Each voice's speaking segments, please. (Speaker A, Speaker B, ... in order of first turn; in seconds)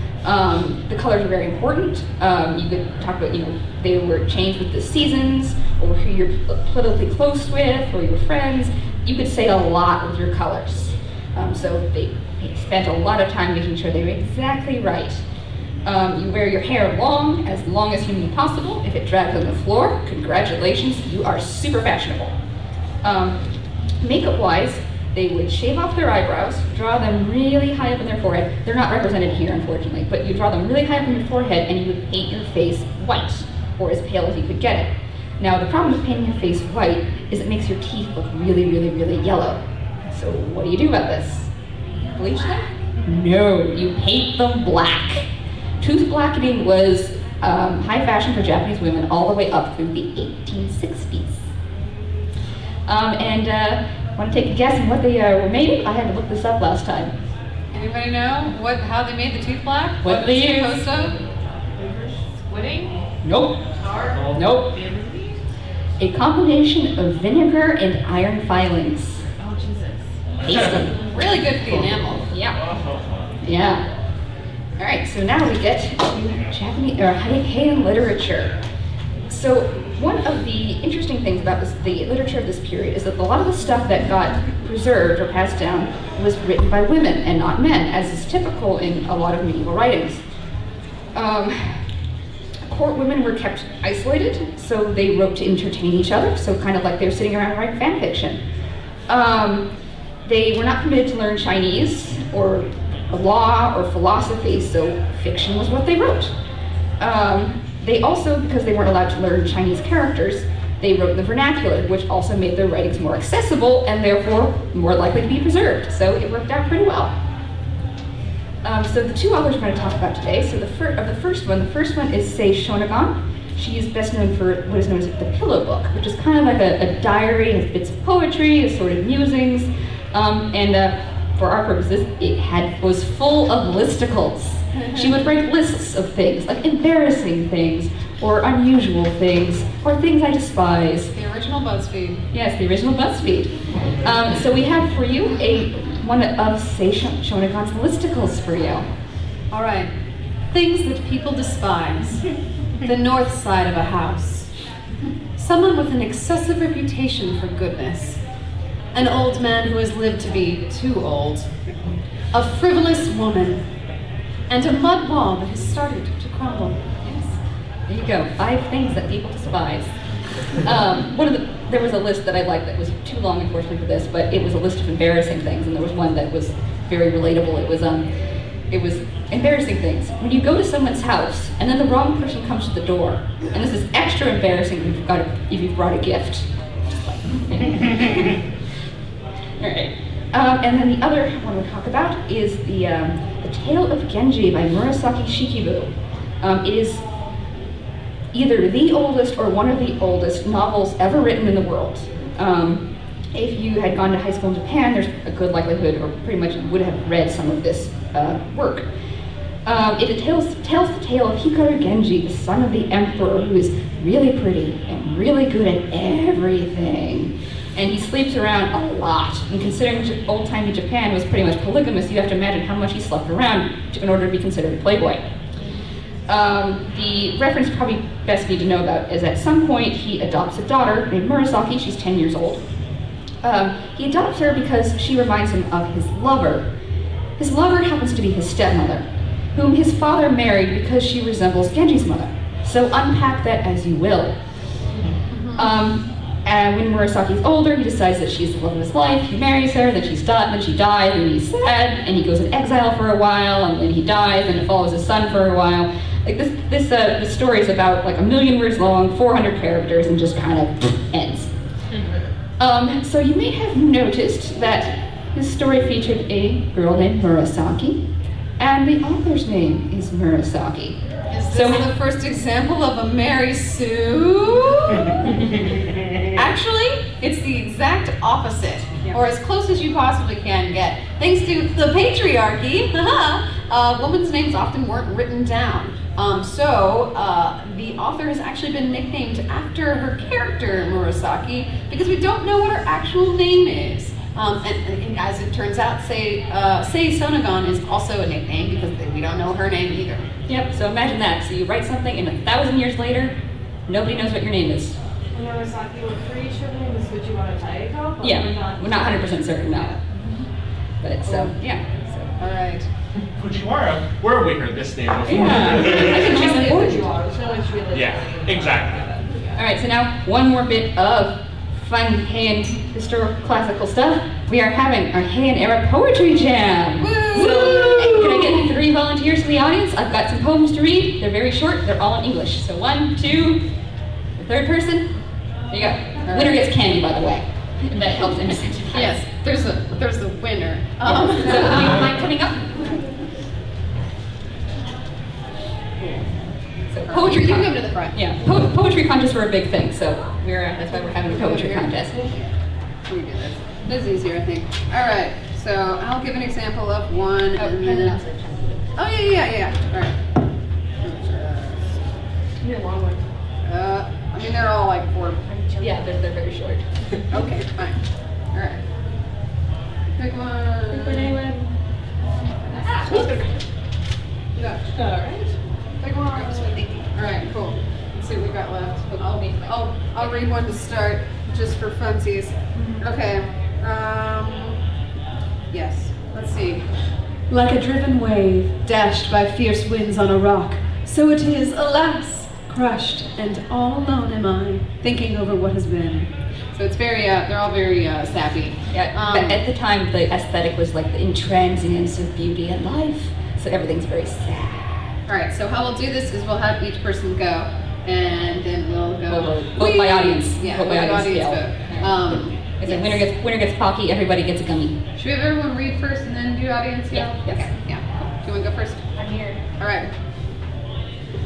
Speaker A: 0.2-15.2, 15.8-22.3, 23.0-23.4, 24.0-41.5, 42.1-45.3, 45.8-51.5, 52.9-57.1, 60.0-60.8, 63.2-63.6, 64.3-64.7, 66.0-69.2, 70.4-70.9, 71.7-72.5, 73.4-73.8, 74.8-78.5, 79.3-90.2, 91.1-91.8, 92.6-98.4, 99.1-99.7, 100.2-106.3, 107.0-117.1, 118.6-141.1, 142.3-148.8, 167.9-169.9, 170.6-178.1, 178.7-186.4, 187.2-188.3, 189.6-195.9, 196.4-197.0, 198.3-208.8, 209.7-225.2, 226.3-232.6, 233.4-236.6, 237.4-244.3, 245.5-261.5, 262.6-268.0, 268.6-271.0, 271.5-271.9, 300.5-303.3, 303.9-304.9, 308.2-310.0, 311.0-312.3, 315.3-317.1, 319.5-333.6, 334.4-335.1, 335.7-339.2, 341.0-343.1, 346.9-352.1, 357.6-358.8, 365.8-366.9, 373.0-373.3, 379.2-379.9, 398.9-404.8, 409.3-415.0, 417.1-417.7
Speaker B: 57.7-61.1, 71.1-72.2, 134.8-135.1, 141.1-142.2, 149.5-149.9, 150.5-152.2, 152.8-154.5, 155.4-158.2, 158.9-161.5, 162.3-163.6, 164.5-167.3, 245.3-245.7, 271.3-275.2, 276.3-300.2, 312.4-312.9, 327.0-328.7, 336.3-336.6, 338.9-342.1, 347.1-348.2, 350.8-352.5, 353.1-358.2, 358.9-360.2, 361.0-361.8, 363.6-365.9, 367.3-368.0, 368.5-368.8, 370.2-371.3, 374.6-374.8, 376.0-384.8, 385.7-386.8, 387.5-399.6, 405.3-413.2, 415.2-419.1, 419.8-420.1
Speaker C: 61.7-63.0, 63.8-64.2, 69.4-70.0, 305.3-310.0, 315.4-319.6, 362.6-363.2, 371.0-371.6, 374.9-375.5
Speaker D: 64.0-65.0, 72.5-73.3, 313.3-316.4, 317.9-319.1